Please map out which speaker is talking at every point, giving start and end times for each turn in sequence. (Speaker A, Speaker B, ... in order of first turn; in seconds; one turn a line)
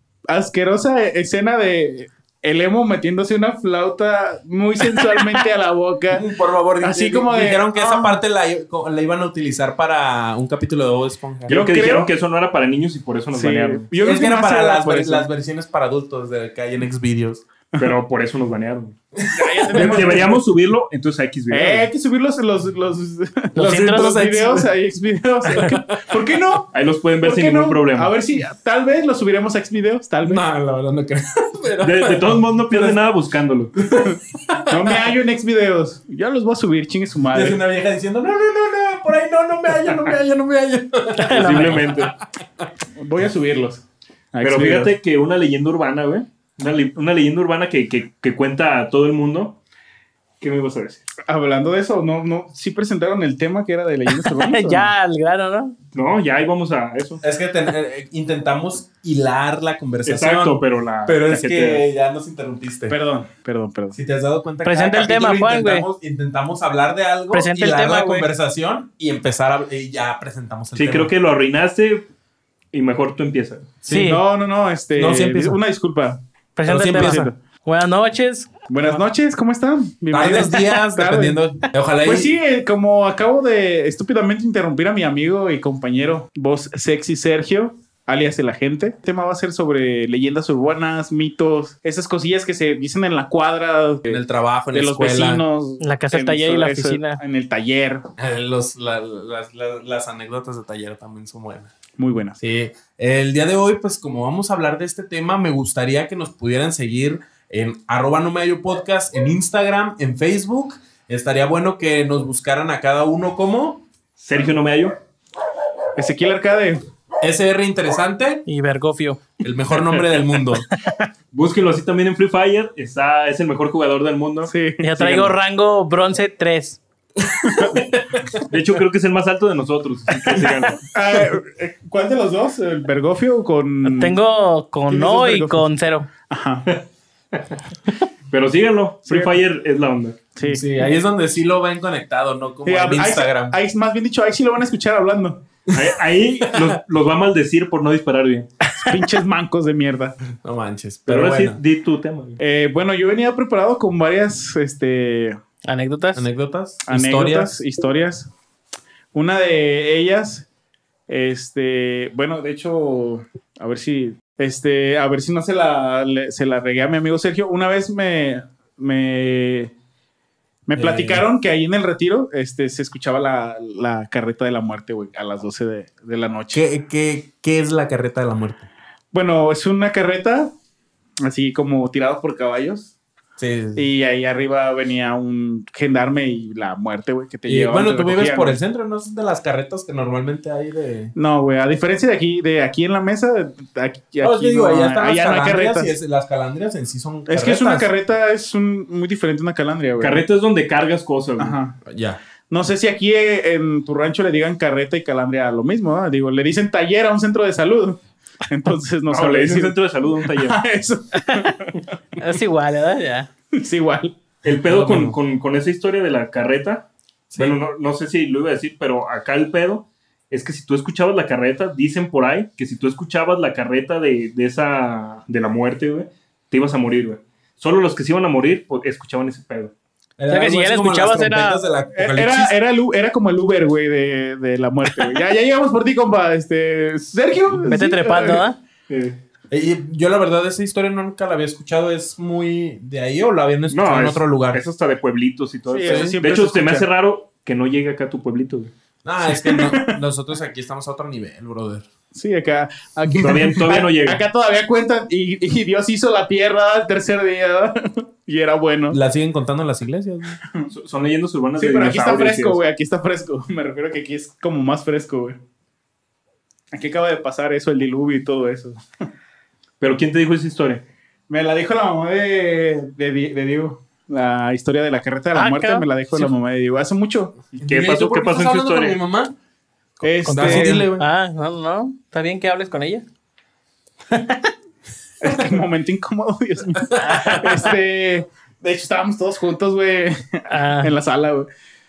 Speaker A: 0.3-6.3
Speaker B: 6.1-11.6
Speaker A: 6.8-8.2
Speaker C: 11.5-13.9
Speaker A: 11.5-12.1
Speaker A: 13.3-15.3
Speaker B: 14.0-17.4
Speaker C: 17.8-19.0
Speaker B: 19.2-20.1
Speaker A: 19.3-20.4
Speaker C: 19.7-21.9
Speaker A: 21.5-26.7
Speaker D: 23.6-24.2
Speaker B: 23.6-24.7
Speaker B: 25.5-26.1
Speaker C: 26.7-28.1
Speaker A: 27.2-30.4
Speaker B: 30.2-32.4
Speaker C: 31.8-33.7
Speaker B: 33.8-35.1
Speaker A: 34.7-37.6
Speaker B: 37.3-42.2
Speaker D: 41.2-41.7
Speaker C: 41.3-42.1
Speaker A: 43.0-45.0
Speaker C: 44.4-49.6
Speaker C: 50.4-51.1
Speaker A: 51.3-54.9
Speaker D: 54.1-55.8
Speaker C: 55.9-57.2
Speaker B: 57.2-63.0
Speaker C: 60.1-61.9
Speaker A: 62.9-64.0
Speaker B: 63.9-71.1
Speaker D: 64.6-65.9
Speaker D: 67.3-68.3
Speaker C: 70.8-72.0
Speaker C: 72.7-73.7
Speaker B: 73.8-74.1
Speaker D: 73.9-74.2
Speaker A: 73.9-77.4
Speaker B: 75.0-75.6
Speaker D: 76.6-79.0
Speaker B: 76.7-77.3
Speaker A: 78.7-81.4
Speaker B: 80.1-82.3
Speaker A: 82.0-98.1
Speaker B: 94.1-95.4
Speaker D: 95.8-97.2
Speaker B: 98.2-101.7
Speaker A: 102.0-102.4
Speaker B: 102.4-113.8
Speaker C: 114.2-115.0
Speaker A: 116.0-116.8
Speaker B: 117.2-118.5
Speaker D: 118.5-119.3
Speaker B: 119.4-120.7
Speaker C: 121.3-125.3
Speaker A: 124.4-124.9
Speaker D: 124.8-126.8
Speaker B: 127.4-128.4
Speaker A: 127.5-127.8
Speaker C: 128.3-130.9
Speaker A: 130.9-134.2
Speaker D: 133.8-136.1
Speaker A: 134.9-135.7
Speaker A: 136.3-136.7
Speaker C: 138.3-140.2
Speaker A: 139.1-139.4
Speaker A: 140.4-140.6
Speaker B: 140.4-143.6
Speaker A: 142.7-145.4
Speaker C: 145.7-148.5
Speaker A: 148.8-150.2
Speaker B: 150.4-151.6
Speaker C: 151.1-152.4
Speaker A: 152.4-155.4
Speaker D: 155.7-156.3
Speaker B: 156.1-157.5
Speaker A: 156.9-158.3
Speaker A: 159.1-160.5
Speaker A: 161.1-169.7
Speaker A: 170.7-176.6
Speaker B: 170.8-171.3
Speaker B: 176.5-178.7
Speaker A: 179.1-180.5
Speaker A: 181.2-182.9
Speaker B: 183.4-183.9
Speaker A: 183.8-188.6
Speaker B: 187.5-191.1
Speaker A: 191.2-195.9
Speaker B: 194.2-197.9
Speaker A: 197.3-200.2
Speaker C: 200.0-201.6
Speaker A: 201.4-201.8
Speaker B: 201.8-202.2
Speaker A: 202.5-212.2
Speaker C: 209.1-210.6
Speaker D: 211.2-211.5
Speaker D: 212.2-213.3
Speaker A: 213.6-214.2
Speaker C: 214.4-216.8
Speaker B: 214.6-215.2
Speaker C: 217.4-229.7
Speaker B: 230.2-232.6
Speaker D: 230.3-231.6
Speaker A: 231.9-238.4
Speaker D: 237.7-238.6
Speaker C: 238.9-239.2
Speaker B: 239.5-244.6
Speaker C: 243.7-248.7
Speaker A: 245.7-246.9
Speaker B: 245.8-246.2
Speaker B: 249.0-251.9
Speaker A: 249.3-250.0
Speaker A: 252.1-259.0
Speaker C: 253.2-254.2
Speaker B: 258.9-260.4
Speaker C: 260.7-262.6
Speaker A: 261.6-265.4
Speaker A: 266.7-268.8
Speaker C: 269.8-270.8
Speaker A: 271.3-277.4
Speaker D: 275.3-276.3
Speaker C: 277.6-279.0
Speaker B: 277.6-279.4
Speaker A: 280.0-280.9
Speaker D: 280.2-283.1
Speaker B: 280.3-281.1
Speaker D: 284.1-284.5
Speaker A: 285.2-291.5
Speaker B: 286.8-287.4
Speaker D: 287.0-287.6
Speaker D: 290.5-290.9